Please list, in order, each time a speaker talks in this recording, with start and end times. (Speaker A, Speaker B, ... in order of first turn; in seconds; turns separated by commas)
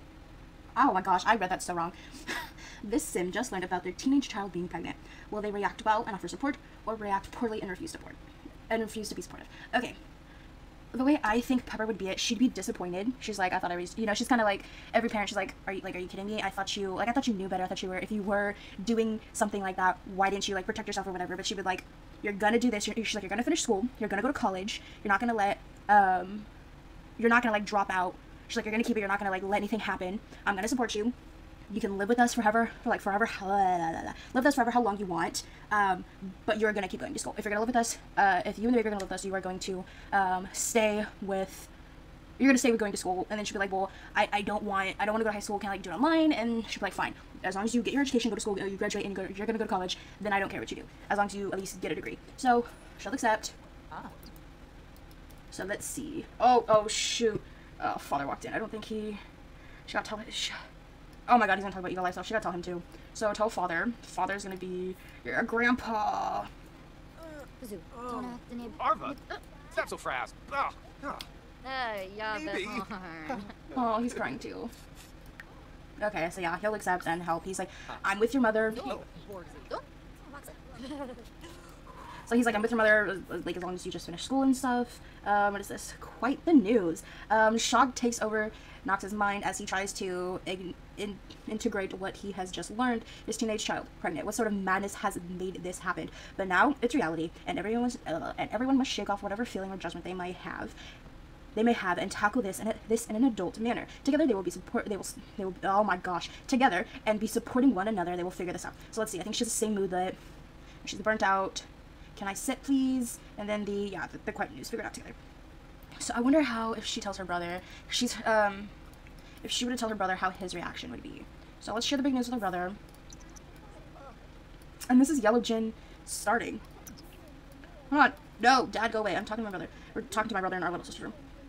Speaker A: 0.8-8.2, Speaker A: 8.7-10.0, Speaker A: 10.9-26.5, Speaker A: 27.2-31.1, Speaker A: 31.7-41.7, Speaker A: 42.4-53.5, Speaker A: 55.5-59.2, Speaker A: 59.9-60.6, Speaker A: 61.3-66.5, Speaker B: 67.6-69.4, Speaker C: 68.0-69.2, Speaker C: 69.7-71.2, Speaker B: 71.6-73.5, Speaker A: 73.7-74.7, Speaker A: 76.0-79.0, Speaker B: 78.8-81.3, Speaker A: 82.3-100.8, Speaker A: 101.5-110.2, Speaker A: 110.8-115.2, Speaker A: 116.0-118.7, Speaker A: 119.4-122.8, Speaker A: 124.9-126.6, Speaker A: 127.9-131.2